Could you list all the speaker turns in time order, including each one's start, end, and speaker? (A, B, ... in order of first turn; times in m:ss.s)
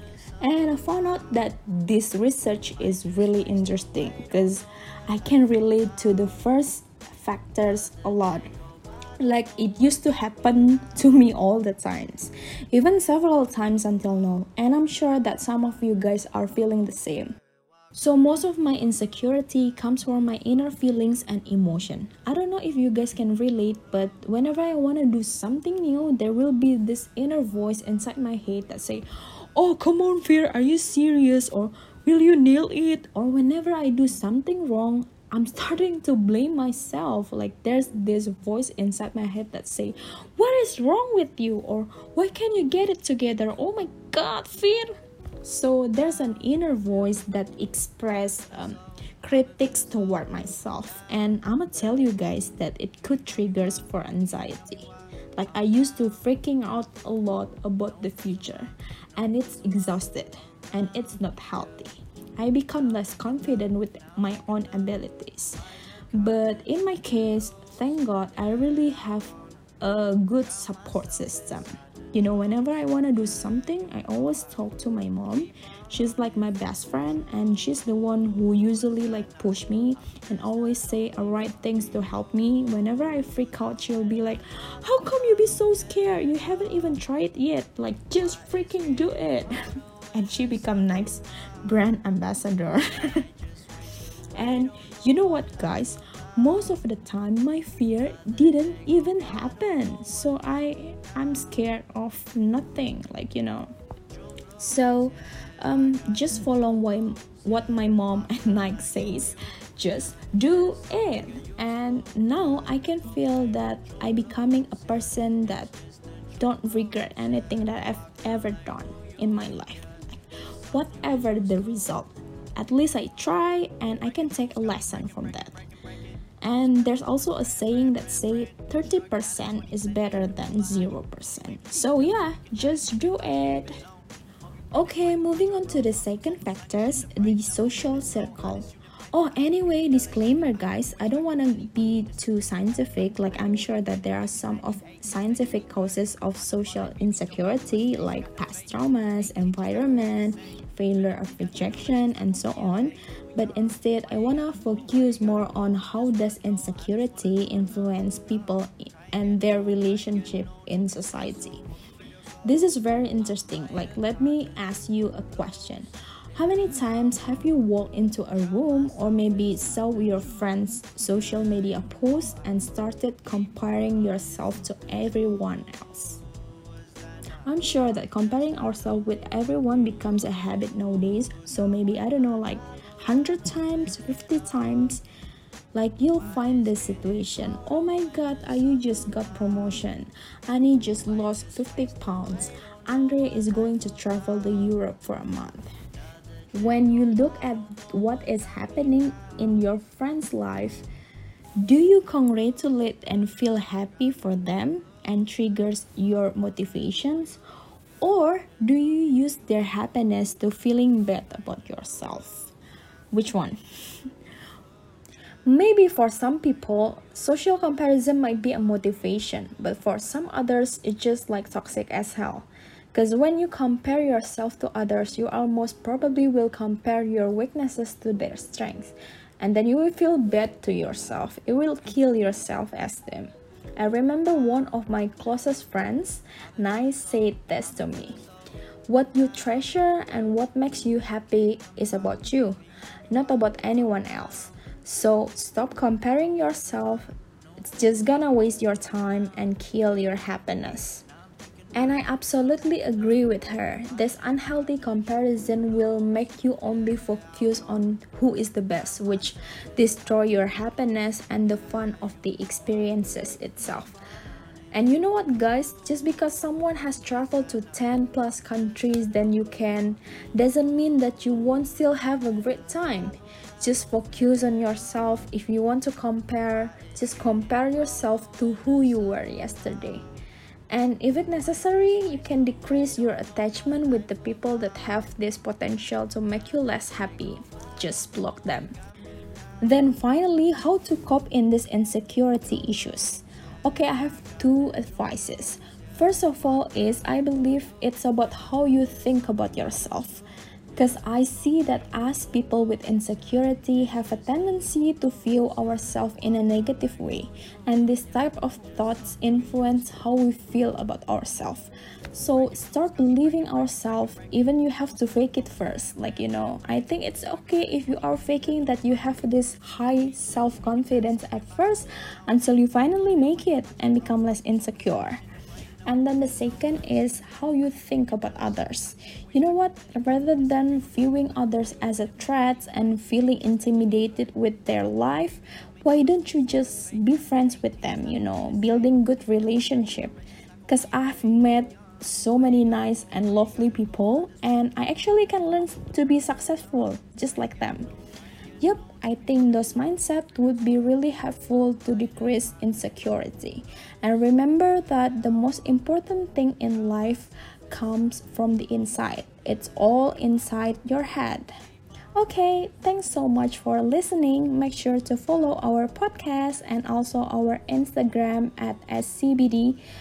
0:00.4-0:08.5 A
0:09.2-0:17.3 A
0:17.9-1:05.6 A
1:06.1-1:29.5 A
1:30.1-1:33.2 A
1:34.4-1:43.7 A
1:44.6-1:55.7 A
1:56.4-1:59.9 A
2:00.7-2:05.6 A
2:06.4-2:13.7 A
2:14.7-2:41.6 A
2:42.4-2:56.2 A
2:57.4-3:05.0 A
3:05.7-3:15.7 A
3:16.5-3:20.8 A
3:21.6-3:27.4 A
3:28.0-3:32.5 A
3:33.1-3:33.6 A
3:35.4-3:58.2 A
3:58.9-4:02.6 A
4:03.1-4:11.0 A
4:11.7-4:24.0 A
4:24.7-4:40.0 A
4:40.7-4:48.7 A
4:49.6-5:00.2 A
5:00.7-5:25.2 A
5:25.8-5:47.9 A
5:48.6-6:01.5 A
6:02.2-6:09.8 A